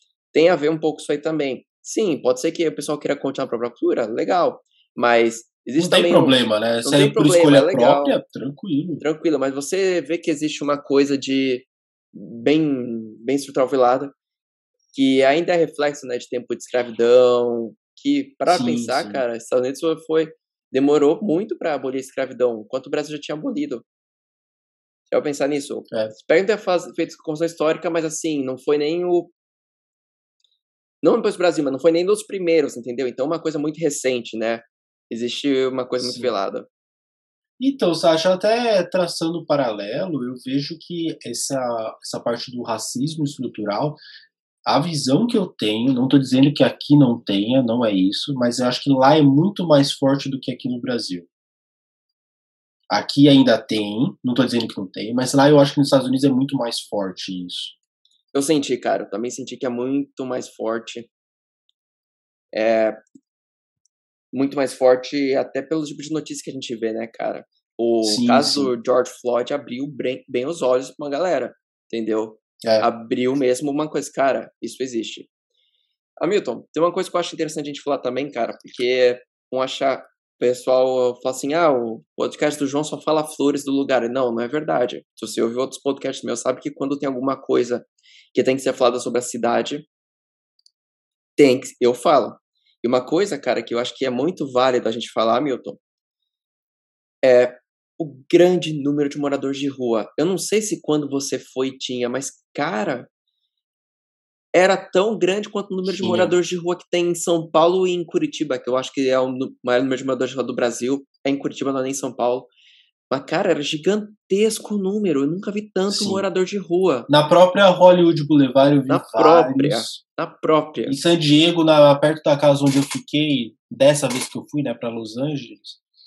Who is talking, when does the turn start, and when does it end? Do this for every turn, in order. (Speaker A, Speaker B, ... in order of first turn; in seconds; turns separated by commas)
Speaker A: 0.3-8.2, Speaker B: 5.8-9.0, Speaker A: 9.0-14.1, Speaker A: 14.9-23.9, Speaker B: 18.5-19.2, Speaker A: 25.1-29.3, Speaker A: 31.0-36.7, Speaker B: 36.0-36.3, Speaker B: 37.6-44.0, Speaker B: 44.6-51.3, Speaker B: 52.9-57.7, Speaker A: 58.3-61.1, Speaker A: 62.5-63.0, Speaker A: 64.3-75.3, Speaker B: 68.0-68.7, Speaker A: 76.2-89.9, Speaker A: 91.4-95.8, Speaker A: 97.2-103.1, Speaker A: 104.5-112.5, Speaker B: 105.9-106.3, Speaker A: 113.1-117.1, Speaker B: 115.9-116.2, Speaker B: 117.1-120.0, Speaker A: 118.9-121.0, Speaker B: 120.9-125.8